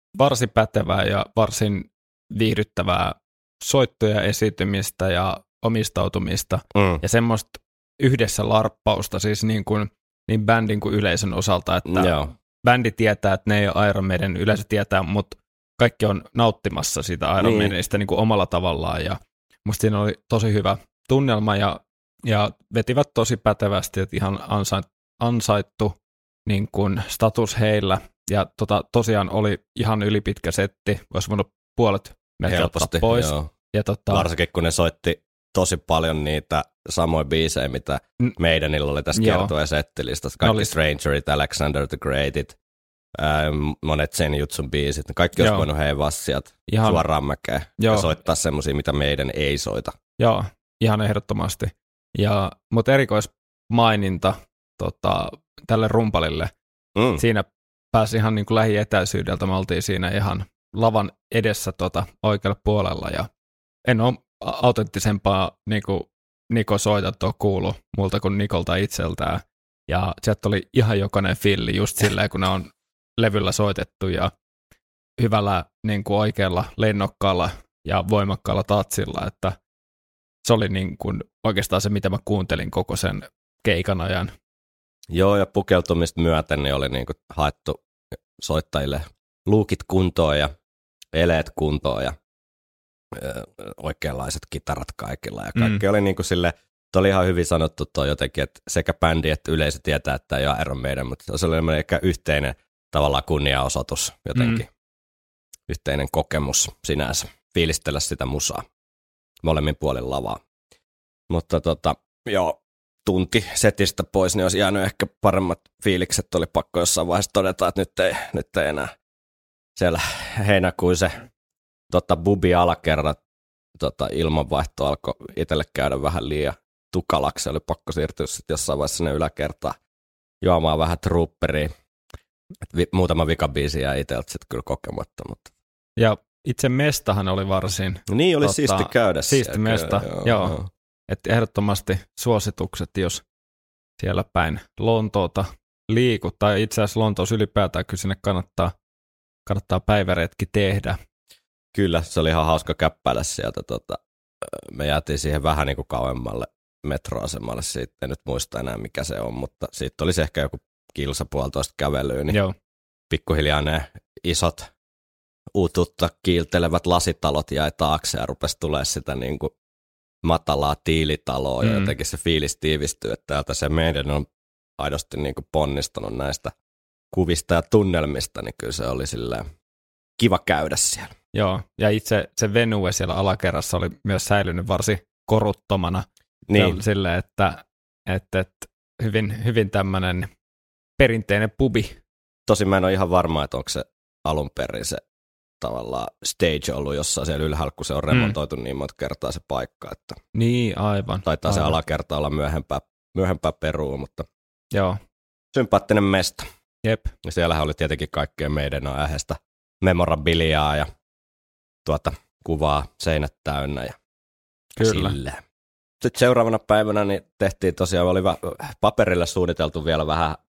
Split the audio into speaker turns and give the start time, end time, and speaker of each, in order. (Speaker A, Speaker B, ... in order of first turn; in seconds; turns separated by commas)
Speaker A: 0.2-25.9, Speaker B: 6.7-7.0, Speaker B: 11.9-12.3, Speaker B: 17.4-17.7, Speaker A: 26.4-34.3, Speaker B: 32.5-33.5, Speaker B: 34.1-42.5, Speaker A: 39.1-39.5, Speaker A: 40.4-40.7, Speaker B: 43.2-49.9, Speaker A: 45.4-45.7, Speaker A: 46.7-47.0, Speaker A: 47.8-48.1, Speaker A: 50.2-56.5, Speaker B: 57.0-57.2, Speaker A: 57.2-63.3, Speaker A: 63.9-74.3, Speaker A: 75.2-79.5, Speaker A: 80.4-84.3, Speaker B: 85.1-87.8, Speaker B: 88.4-90.5, Speaker B: 91.1-92.1, Speaker B: 93.1-104.7, Speaker A: 95.5-95.8, Speaker A: 104.3-104.6, Speaker B: 105.7-108.6, Speaker B: 109.4-110.4, Speaker B: 111.3-118.9, Speaker B: 119.8-121.2, Speaker B: 121.9-123.2, Speaker B: 123.8-129.8, Speaker B: 130.4-131.7, Speaker B: 132.7-135.5, Speaker A: 136.0-140.6, Speaker B: 138.1-140.7, Speaker A: 141.1-143.2, Speaker A: 144.0-148.7, Speaker A: 149.5-151.0, Speaker B: 151.7-162.4, Speaker B: 163.1-164.7, Speaker B: 165.5-169.5, Speaker B: 170.2-174.2, Speaker A: 171.6-171.9, Speaker B: 174.8-176.5, Speaker B: 177.1-179.4, Speaker B: 180.2-181.1, Speaker A: 181.3-190.3, Speaker B: 186.5-186.8, Speaker A: 191.0-192.0, Speaker B: 192.5-195.0, Speaker B: 195.6-200.2, Speaker A: 200.3-201.8, Speaker B: 201.2-204.3, Speaker A: 204.7-205.0, Speaker B: 205.5-206.5, Speaker A: 206.8-207.1, Speaker B: 207.2-210.9, Speaker B: 211.8-214.0, Speaker A: 214.8-215.1, Speaker B: 214.8-215.4, Speaker B: 216.0-220.4